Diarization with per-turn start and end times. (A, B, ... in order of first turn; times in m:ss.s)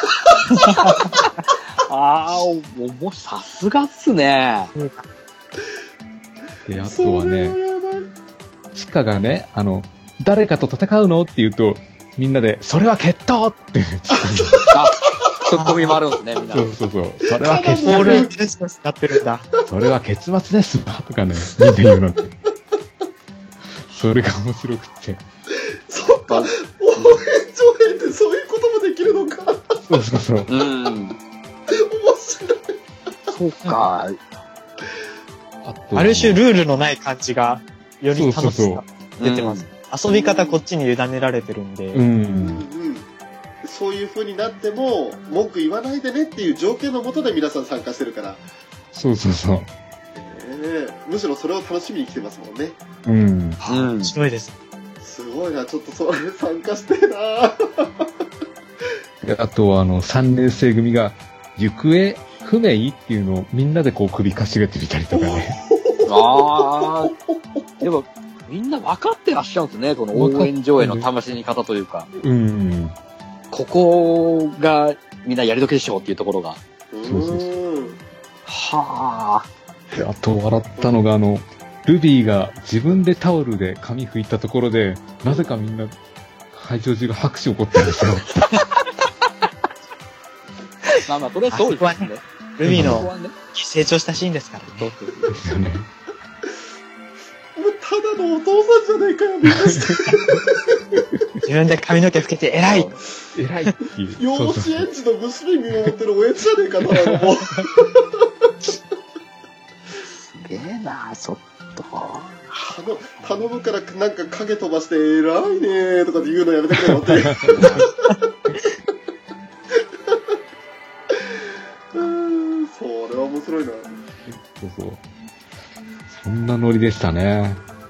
0:00.5-0:01.0 A
0:00.8-0:04.7 B
0:04.7-0:05.0 A
0:06.6-0:07.6 C
0:06.8-0:08.1 D
0:08.7-0:14.7 C
0:14.4-0:14.7 D
0:14.7-0:16.7 B
0:15.5-0:16.0 A
0:16.5-0:18.3 C
0:17.3-0:18.3 D
0:17.8-0:19.5 A
0:19.6-0:22.3 C
0:23.9-0:25.2 C
0:25.5-0:30.1 D
0:26.3-0:26.5 B
0:29.9-0:30.5 C
0:30.5-0:31.2 B
0:31.7-0:32.8 D
0:33.3-0:34.2 B
0:35.6-0:36.4 C
0:35.9-0:42.0 A
0:38.1-0:38.8 C
0:39.2-0:39.7 B
0:40.1-0:40.6 D
0:41.9-0:42.6 C
0:42.4-0:43.1 D
0:43.6-0:48.4 D
0:48.9-0:49.7 C
0:50.1-0:52.8 D
0:53.0-0:53.6 C
0:53.6-0:54.6 A
0:53.7-0:54.1 B
0:55.0-0:58.1 D
0:59.2-1:05.6 C
1:05.1-1:07.4 D
1:06.0-1:07.1 B
1:07.8-1:12.1 B
1:10.1-1:11.1 C
1:12.2-1:13.0 C
1:13.5-1:16.6 B
1:16.9-1:18.0 D
1:17.0-1:17.5 C
1:18.4-1:19.5 B
1:19.9-1:25.9 C
1:26.5-1:28.5 C
1:31.0-1:33.3 B
1:31.5-1:34.9 A
1:32.6-1:33.1 C
1:34.7-1:35.4 B
1:35.3-1:35.9 C
1:37.6-1:40.5 D
1:39.6-1:40.4 C
1:41.4-1:42.9 A
1:43.3-1:44.9 C
1:44.2-1:48.2 D
1:46.9-1:47.7 C
1:50.2-1:52.4 B
1:52.5-1:57.9 D
1:56.7-1:57.7 C
1:57.5-1:57.8 B
2:01.9-2:04.0 D
2:04.3-2:05.0 C
2:06.1-2:07.6 C